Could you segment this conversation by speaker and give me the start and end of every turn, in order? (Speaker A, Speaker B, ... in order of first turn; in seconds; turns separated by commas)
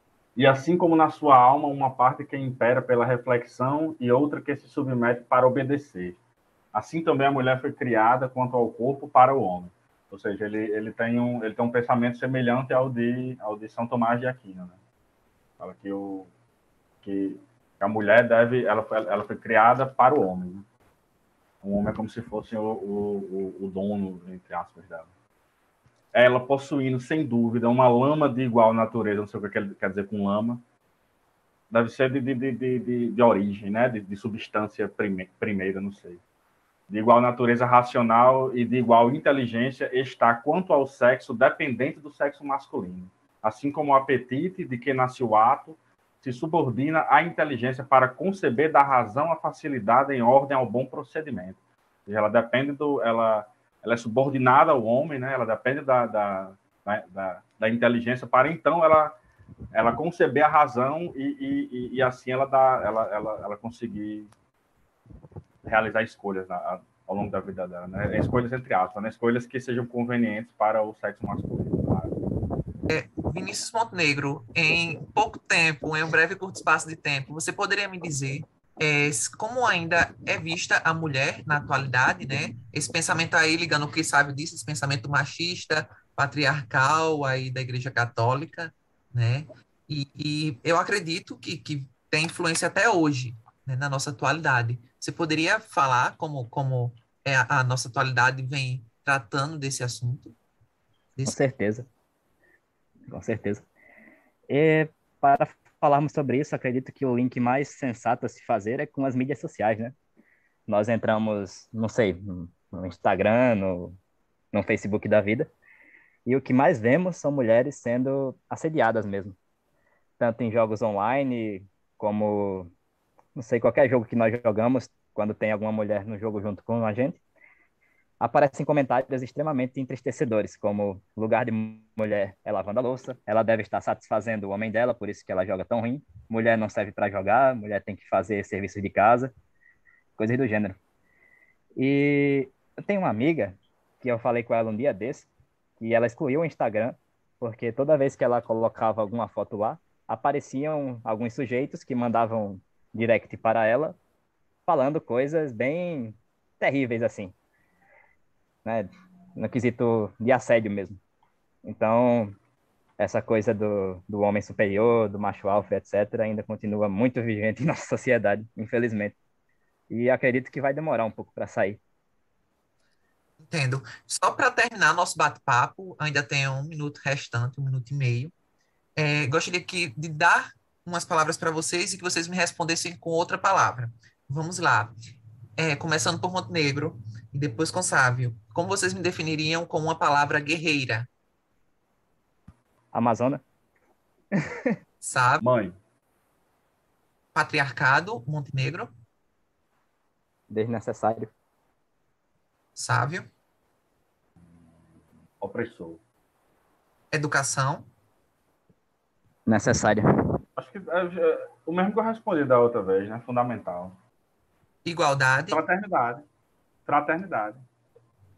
Speaker A: 0.4-6.2, Speaker A: 6.7-14.8, Speaker A: 15.6-16.3, Speaker A: 17.0-20.7, Speaker A: 21.6-25.1, Speaker A: 26.1-30.6, Speaker A: 31.7-36.2, Speaker A: 36.9-59.2, Speaker A: 59.7-64.3, Speaker A: 65.6-72.2, Speaker B: 72.9-100.3, Speaker C: 101.3-101.9, Speaker C: 103.1-103.7, Speaker C: 104.5-110.0, Speaker C: 110.7-114.0, Speaker C: 114.5-115.5, Speaker C: 116.3-119.4, Speaker C: 120.2-122.7, Speaker C: 123.3-127.2, Speaker C: 128.2-139.3, Speaker C: 140.2-140.8, Speaker C: 141.8-154.0, Speaker C: 154.7-157.3, Speaker C: 158.7-161.0, Speaker C: 161.7-162.4, Speaker C: 163.0-169.2, Speaker C: 169.9-171.8, Speaker B: 173.4-178.3, Speaker B: 179.0-184.9, Speaker B: 185.6-191.1, Speaker C: 192.9-193.4, Speaker B: 195.0-195.4, Speaker A: 195.4-195.8, Speaker B: 197.3-198.9, Speaker C: 200.5-201.3, Speaker B: 202.8-203.2, Speaker A: 205.4-206.0, Speaker B: 207.1-207.9, Speaker C: 209.5-210.1, Speaker A: 210.6-214.0, Speaker B: 214.8-215.6, Speaker A: 215.5-216.3, Speaker A: 216.9-217.7